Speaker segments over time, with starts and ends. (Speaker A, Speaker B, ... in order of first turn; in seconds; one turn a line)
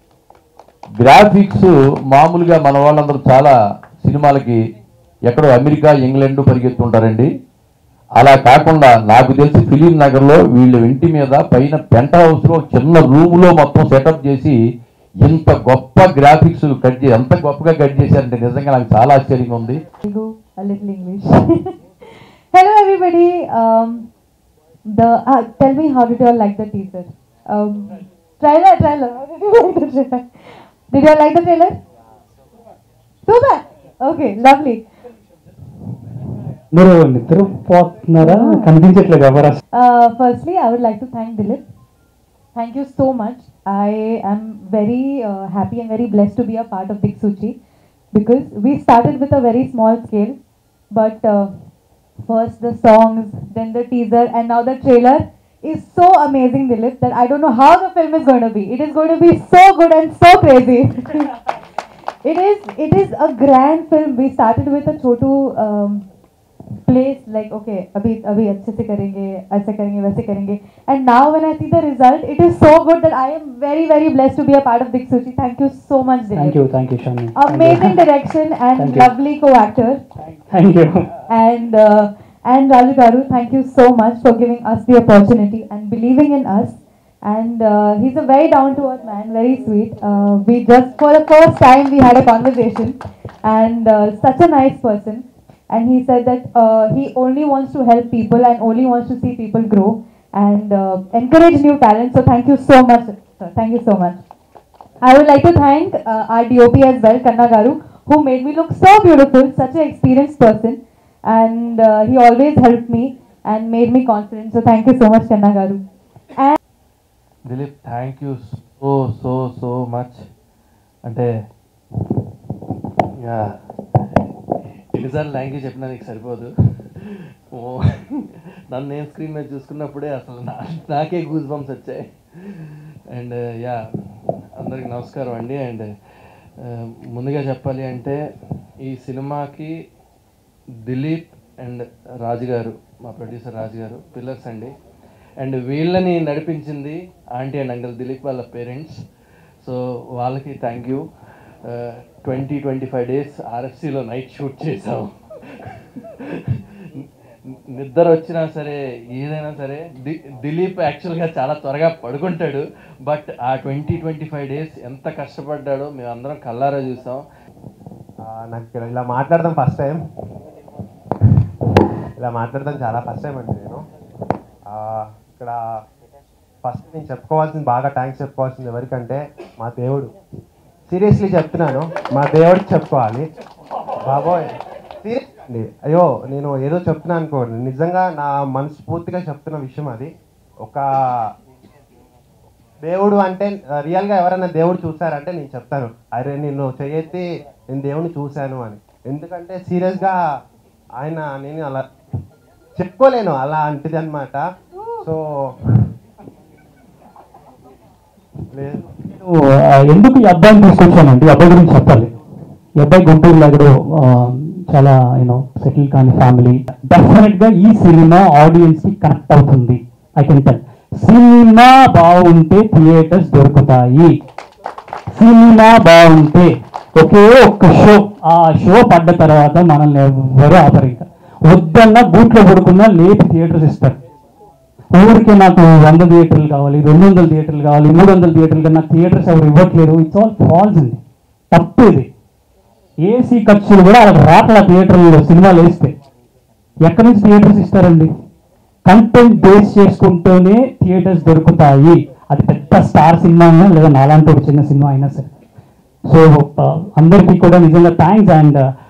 Speaker A: 1.0-4.6
Speaker A: 5.3-7.3
Speaker A: 8.2-14.5
Speaker A: 15.2-19.8
Speaker B: 20.1-24.1
Speaker B: 24.9-31.8
Speaker B: 33.3-34.8
Speaker C: 36.7-39.6
Speaker B: 38.2-38.7
Speaker B: 39.7-41.6
Speaker B: 42.5-47.6
Speaker B: 48.1-50.4
Speaker B: 50.9-51.5
Speaker B: 52.2-61.4
Speaker B: 62.2-66.0
Speaker B: 66.9-76.6
Speaker C: 76.4-77.9
Speaker B: 77.3-80.0
Speaker C: 78.8-79.0
Speaker C: 80.5-80.9
Speaker B: 81.3-104.2
Speaker B: 105.0-115.8
Speaker D: 117.5-120.2
Speaker D: 123.2-123.5
Speaker D: 124.9-126.5
Speaker D: 127.0-133.8
Speaker D: 134.6-135.9
Speaker D: 136.6-138.2
Speaker D: 138.8-139.7
Speaker D: 140.9-144.7
Speaker D: 145.4-149.0
Speaker D: 149.6-151.0
Speaker D: 151.7-155.1
Speaker D: 157.8-167.2
Speaker E: 168.2-170.0
Speaker E: 172.2-173.8
Speaker E: 174.7-175.6
Speaker E: 176.6-180.1
Speaker E: 180.9-183.2
Speaker E: 184.0-184.5
Speaker E: 185.0-190.1
Speaker E: 192.8-200.2
Speaker E: 201.0-201.8
Speaker E: 202.8-204.4
Speaker E: 205.0-205.6
Speaker E: 208.5-208.8
Speaker C: 209.9-212.1
Speaker C: 212.8-224.1
Speaker C: 225.2-234.0
Speaker C: 235.0-241.0
Speaker C: 241.5-242.1
Speaker C: 243.1-245.9
Speaker C: 246.9-248.1
Speaker C: 248.9-255.3
Speaker C: 256.1-258.6